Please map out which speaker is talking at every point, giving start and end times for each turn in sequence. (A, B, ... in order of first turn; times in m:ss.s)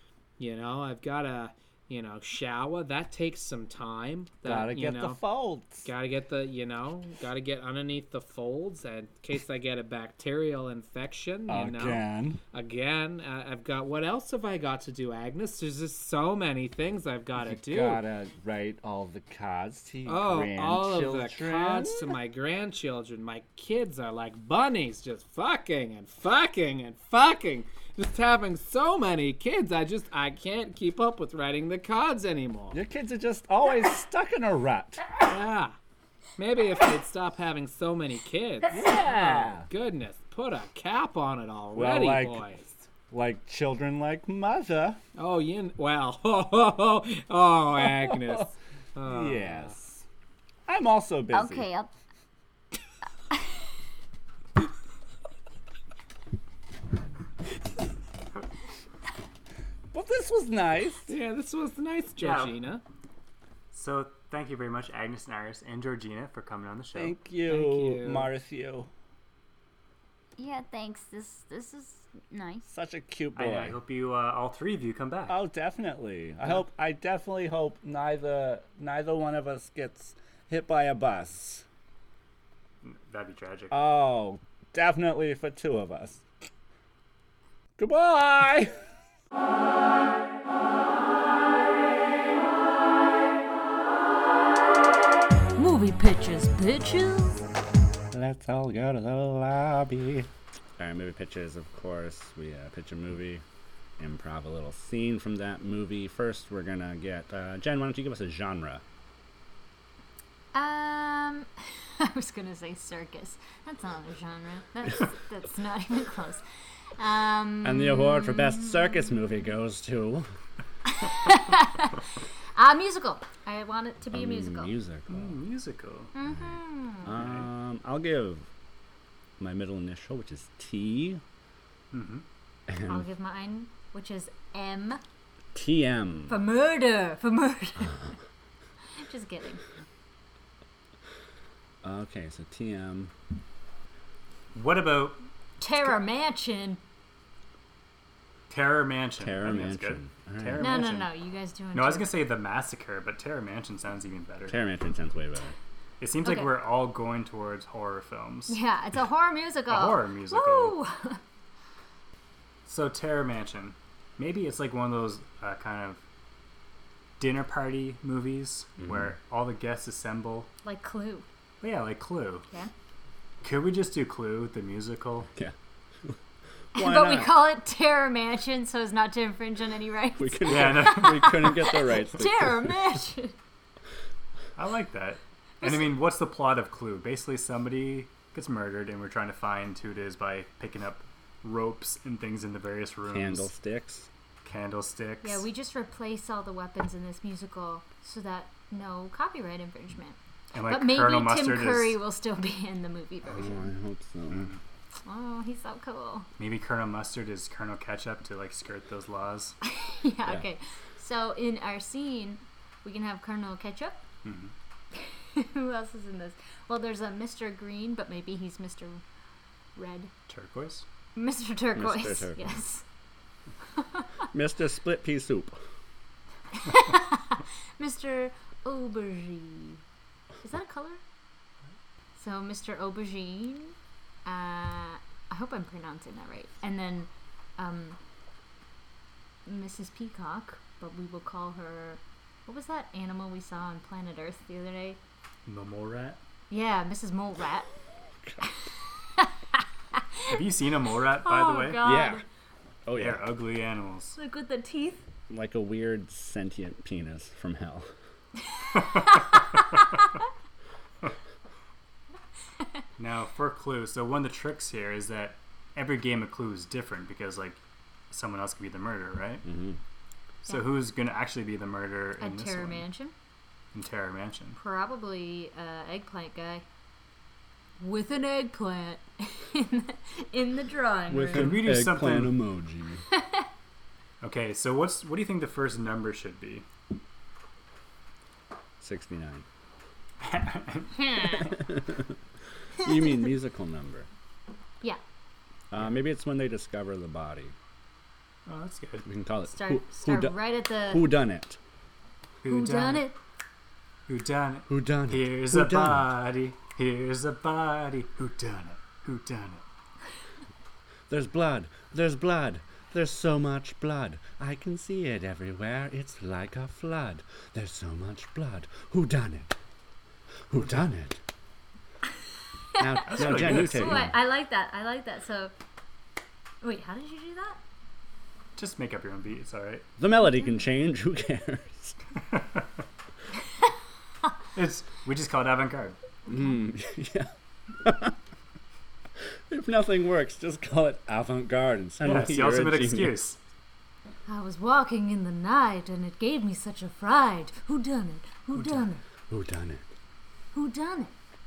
0:00.4-0:05.2 A
0:04.4-0:05.9 B
0:05.8-0:18.0 A
0:11.5-0:12.4 B
0:17.4-0:22.1 B
0:20.0-0:32.8 A
0:32.7-0:35.0 B
0:35.2-0:35.8 A
0:36.4-0:42.9 A
0:38.7-0:39.7 B
0:41.7-0:42.4 B
0:43.1-0:45.0 B
0:45.2-0:49.7 A
0:47.8-0:48.5 B
0:49.0-0:50.0 B
0:50.7-0:51.7 B
0:51.3-0:51.9 C
0:59.9-1:01.1 B
1:01.1-1:02.8 A
1:02.2-1:02.5 D
1:03.7-1:07.2 D
1:06.9-1:08.9 B
1:07.5-1:08.3 A
1:10.4-1:12.7 C
1:12.7-1:13.8 B
1:13.4-1:15.4 D
1:15.3-1:21.6 B
1:22.8-1:23.8 D
1:23.7-1:26.2 B
1:27.8-1:28.7 B
1:35.6-1:37.4 E
1:38.1-1:43.4 B
1:44.0-1:48.8 B
1:50.5-1:56.4 E
1:57.0-1:59.1 E
1:57.6-2:00.3 B
2:00.9-2:04.7 E
2:04.1-2:05.4 B
2:05.1-2:06.1 D
2:06.1-2:07.1 E
2:06.2-2:08.5 B
2:07.1-2:07.5 D
2:09.4-2:11.2 B
2:11.9-2:12.2 D
2:12.7-2:13.1 B
2:12.9-2:15.0 E
2:15.5-2:16.4 B
2:16.3-2:18.1 E
2:18.9-2:19.6 E
2:21.8-2:23.1 B
2:24.5-2:25.2 D
2:25.6-2:26.8 E
2:28.5-2:31.1 D
2:29.2-2:30.8 B
2:30.6-2:32.1 E
2:31.7-2:34.6 D
2:34.5-2:35.5 B
2:36.0-2:38.6 D
2:36.2-2:36.5 E
2:38.5-2:41.2 E
2:39.7-2:40.8 D
2:42.6-2:46.0 D
2:47.2-2:50.5 D
2:48.8-2:49.1 B
2:50.6-2:51.3 E
2:51.6-2:52.4 D
2:53.4-2:55.3 D
2:56.7-2:57.4 B
2:56.7-3:03.3 E
3:00.2-3:02.7 B
3:00.4-3:01.4 D
3:04.6-3:13.5 D
3:05.6-3:05.9 E
3:13.1-3:14.1 B
3:14.4-3:15.4 D
3:15.2-3:23.7 E
3:20.5-3:22.0 D
3:23.3-3:24.5 B
3:24.3-3:24.6 D
3:25.0-3:26.3 E
3:26.4-3:29.6 D
3:29.6-3:34.0 E
3:34.2-3:34.5 D
3:34.9-3:39.0 E
3:39.8-3:40.1 E
3:40.3-3:40.8 D
3:41.2-3:42.8 E
3:41.7-3:42.5 B
3:43.8-3:44.1 E
3:44.3-3:45.6 B
3:46.6-3:49.8 E
3:50.4-3:51.0 E
3:52.2-3:58.0 E
3:59.4-4:05.0 E
4:05.4-4:06.2 D
4:06.5-4:07.7 E
4:09.9-4:10.3 E
4:10.3-4:11.8 D
4:11.2-4:12.2 E
4:11.8-4:12.2 B
4:12.8-4:13.2 B
4:12.9-4:14.2 D
4:14.2-4:15.0 E
4:15.3-4:17.9 B
4:18.8-4:19.2 D
4:19.0-4:19.3 E
4:23.0-4:29.4 D
4:29.4-4:29.8 B
4:30.4-4:32.9 D
4:32.2-4:33.1 E
4:33.7-4:34.6 D
4:34.6-4:36.6 E
4:37.8-4:41.6 E
4:41.1-4:43.0 B
4:41.3-4:42.4 D
4:43.1-4:43.4 E
4:44.2-4:46.7 D
4:48.8-4:49.4 B
4:50.2-4:51.5 D
4:51.0-4:51.5 E
4:51.5-4:52.1 B
4:52.8-4:54.1 B
4:55.7-4:57.5 B
4:58.4-4:59.0 D
4:59.0-5:01.6 B
4:59.5-5:01.1 E
5:02.4-5:03.1 D
5:02.4-5:03.2 E
5:04.1-5:09.6 D
5:04.7-5:06.1 B
5:11.1-5:19.6 B
5:20.5-5:21.2 B
5:22.8-5:25.5 E
5:22.8-5:24.1 B
5:23.1-5:24.1 D
5:26.6-5:27.6 E
5:28.6-5:29.9 D
5:30.0-5:32.0 B
5:32.3-5:32.6 D
5:34.5-5:36.0 D
5:36.3-5:38.2 B
5:39.5-5:43.2 B
5:42.0-5:43.4 D
5:44.2-5:49.0 E
5:49.3-5:49.9 B
5:50.5-5:51.1 E